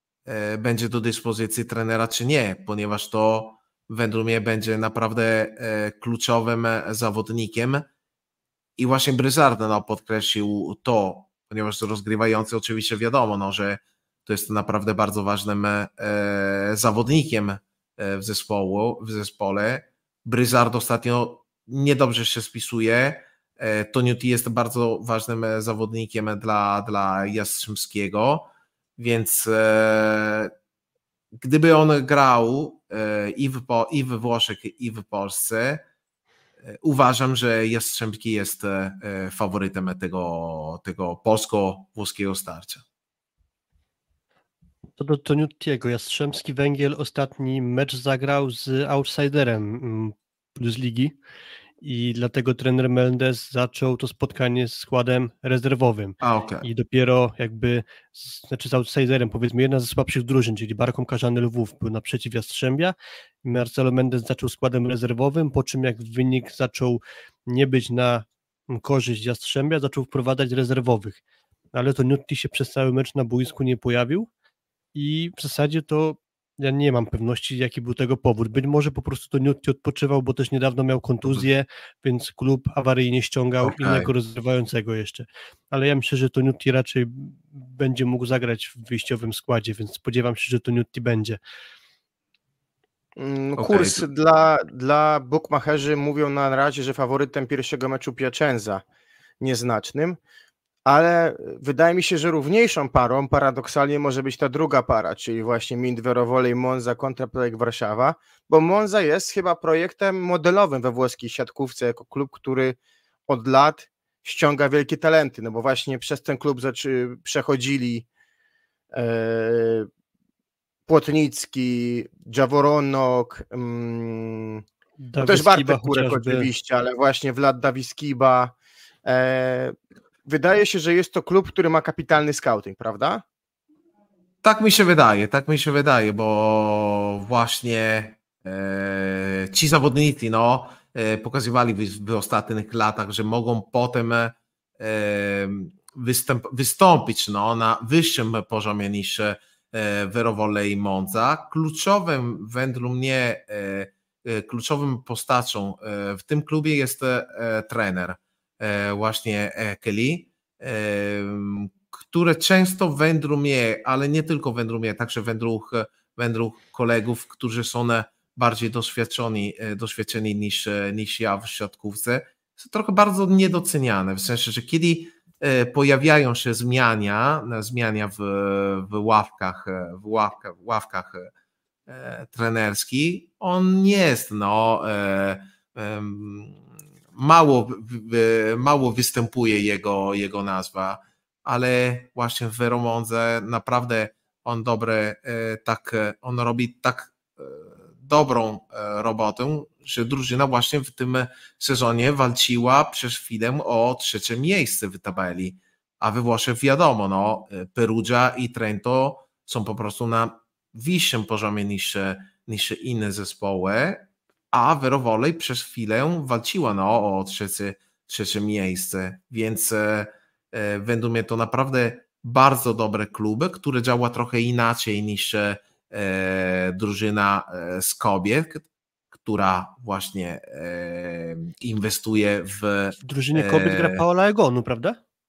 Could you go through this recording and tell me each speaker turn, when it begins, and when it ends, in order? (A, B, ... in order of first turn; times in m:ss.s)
0:00.2-0:07.9 A
0:08.8-0:30.5 A
0:31.4-0:35.8 A
0:36.6-0:42.8 A
0:45.0-0:51.1 B
0:51.8-1:11.2 B
0:56.2-0:56.6 A
1:11.7-1:14.3 B
1:14.9-1:31.4 B
1:23.6-1:24.1 A
1:33.2-1:38.8 C
1:33.6-1:34.0 A
1:39.4-1:40.2 C
1:40.8-1:58.0 C
1:58.9-1:59.9 C
2:00.9-2:04.6 C
2:05.0-2:06.5 B
2:05.2-2:13.2 C
2:14.4-3:01.3 A
3:01.9-3:06.6 A
3:07.1-3:54.0 A
3:53.0-3:55.0 B